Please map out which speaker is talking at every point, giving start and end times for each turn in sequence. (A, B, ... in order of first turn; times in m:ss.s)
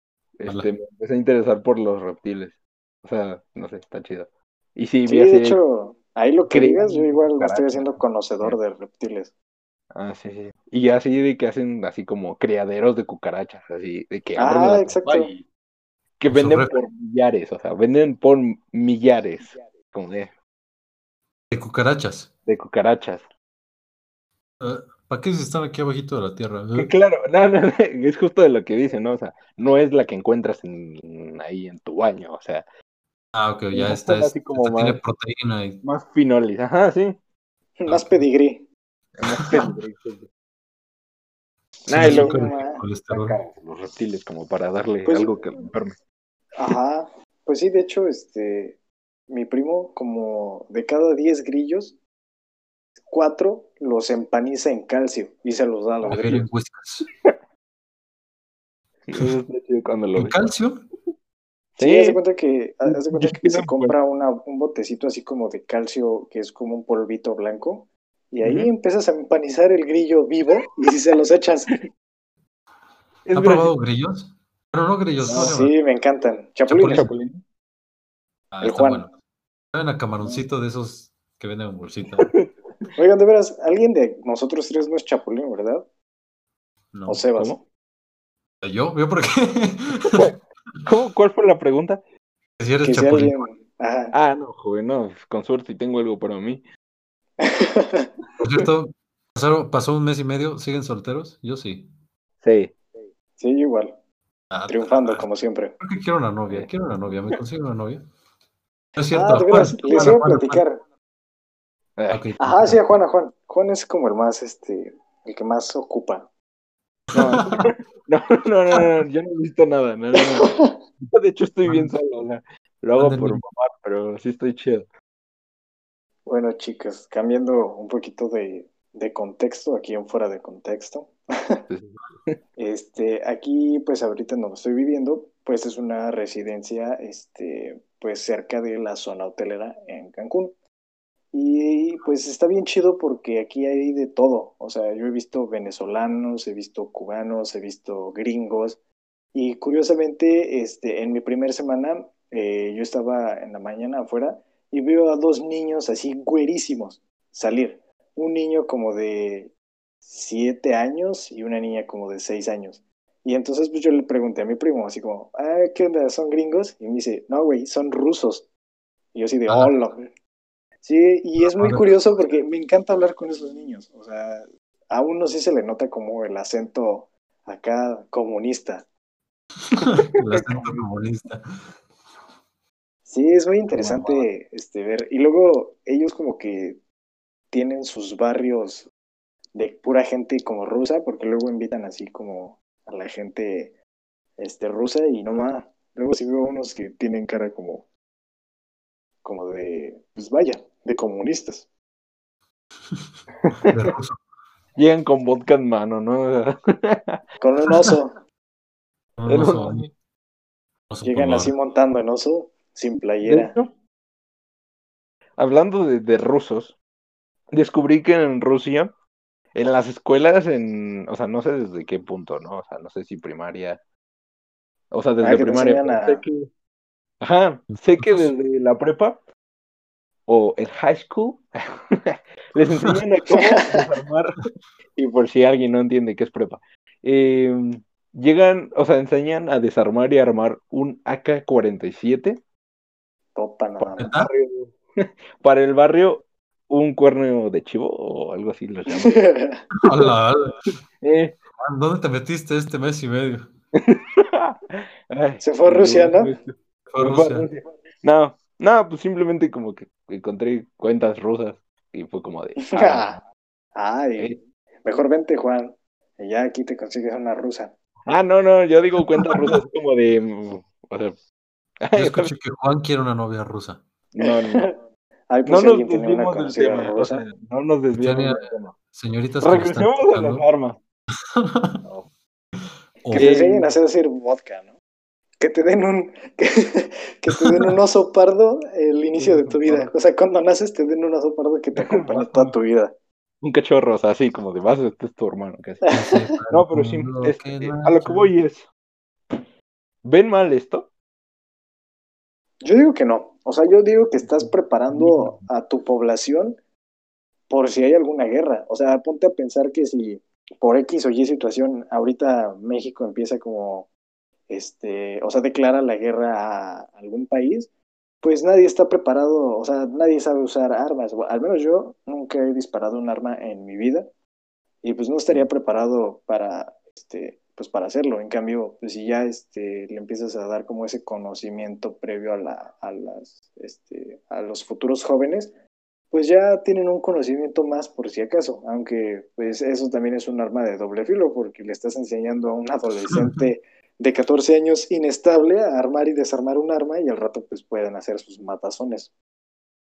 0:00.4-0:05.6 A
0:05.1-0:09.3 B
0:06.5-0:08.6 A
0:09.9-0:15.4 A
0:14.4-0:15.3 B
0:16.2-0:20.3 A
0:16.3-0:16.8 C
0:21.5-0:22.3 C
0:22.5-0:23.2 A
0:24.6-0:26.9 C
0:26.8-0:32.6 A
0:33.3-0:35.8 C
0:33.7-0:35.0 A
0:35.8-0:37.2 A
0:37.8-0:38.7 B
0:37.9-0:38.2 C
0:39.2-0:40.3 A
0:41.9-0:42.6 A
0:41.9-0:43.4 C
0:41.9-0:42.8 B
0:43.1-0:46.0 A
0:45.0-0:45.4 B
0:46.6-0:52.0 B
0:53.1-0:56.4 B
0:56.0-0:56.5 A
0:56.0-0:57.1 C
0:59.1-1:00.4 A
1:00.2-1:00.8 C
1:01.8-1:02.2 A
1:01.8-1:11.8 B
1:02.9-1:04.0 A
1:08.4-1:08.7 A
1:13.3-1:13.7 A
1:13.3-1:15.8 C
1:15.3-1:15.5 A
1:15.3-1:17.1 B
1:16.7-1:17.1 C
1:16.9-1:17.4 A
1:18.5-1:19.1 C
1:18.6-1:19.1 B
1:19.7-1:22.3 C
1:23.0-1:25.9 B
1:26.9-1:27.2 C
1:27.1-1:27.6 B
1:27.4-1:27.6 A
1:28.6-1:30.3 C
1:30.1-1:30.3 A
1:30.8-1:32.0 A
1:32.6-1:33.5 C
1:32.8-1:34.2 B
1:34.1-1:36.6 A
1:37.4-1:38.1 B
1:38.4-1:41.9 C
1:42.4-1:42.7 A
1:43.4-1:44.0 B
1:44.5-1:45.3 C
1:44.7-1:45.8 B
1:45.8-1:48.0 C
1:49.0-1:50.6 C
1:49.1-1:50.8 B
1:52.0-1:52.3 A
1:52.1-1:52.8 C
1:52.4-1:56.3 B
1:57.1-1:57.7 C
1:57.1-2:04.9 A
2:00.2-2:00.8 B
2:01.7-2:01.9 C
2:03.0-2:03.4 C
2:06.3-2:11.6 B
2:11.7-2:12.4 A
2:12.6-2:20.6 B
2:21.3-2:28.8 B
2:29.3-2:39.5 B
2:40.1-2:48.5 B
2:49.1-2:50.1 B
2:49.5-2:49.7 C
2:50.8-2:58.8 B
2:51.4-2:51.8 C
2:59.7-3:01.7 C
2:59.8-3:00.8 A
3:03.1-3:06.8 B
3:03.7-3:04.2 A
3:07.5-3:08.9 B
3:09.6-3:13.7 B
3:14.4-3:17.9 B
3:19.2-3:21.7 B
3:23.4-3:23.9 A
3:23.6-3:24.2 C
3:24.8-3:27.2 A
3:27.4-3:28.2 B
3:29.2-3:29.9 C
3:29.3-3:29.9 A
3:30.9-3:31.5 C
3:31.0-3:33.6 B
3:33.2-3:33.7 A
3:35.4-3:36.8 A
3:37.5-3:38.9 A
3:39.5-3:43.8 A
3:44.9-3:46.5 A
3:45.2-3:46.2 B
3:47.2-3:49.2 A
3:48.0-3:48.3 C
3:50.3-4:02.4 A
3:53.3-3:53.8 B
4:03.4-4:04.1 B
4:04.0-4:04.3 C
4:04.0-4:09.2 A
4:08.9-4:09.7 B
4:09.8-4:10.7 C
4:11.0-4:11.4 A
4:11.6-4:13.5 C
4:13.7-4:23.2 A
4:15.4-4:16.4 B
4:16.9-4:17.5 C
4:22.6-4:23.2 B
4:23.8-4:27.7 B
4:28.1-4:31.2 A
4:31.8-4:32.3 A
4:32.0-4:33.8 C
4:34.1-4:34.7 A
4:34.2-4:37.3 B
4:35.5-4:38.8 A
4:38.0-4:40.5 C
4:39.4-4:40.8 A
4:41.4-4:41.8 C
4:41.8-4:42.1 A
4:43.0-4:43.4 C
4:43.1-4:44.7 B
4:43.2-4:43.7 A
4:45.4-4:52.9 B
4:49.2-4:49.9 A
4:51.8-4:52.6 A
4:53.4-4:55.9 A
4:55.8-4:56.4 B
4:55.9-4:58.3 C
4:56.5-4:58.7 A
5:00.0-5:00.9 A
5:02.6-5:06.6 B
5:04.4-5:05.5 C
5:07.5-5:13.9 B
5:14.5-5:17.7 B
5:18.2-5:24.1 B
5:24.8-5:35.5 B
5:36.1-5:49.1 B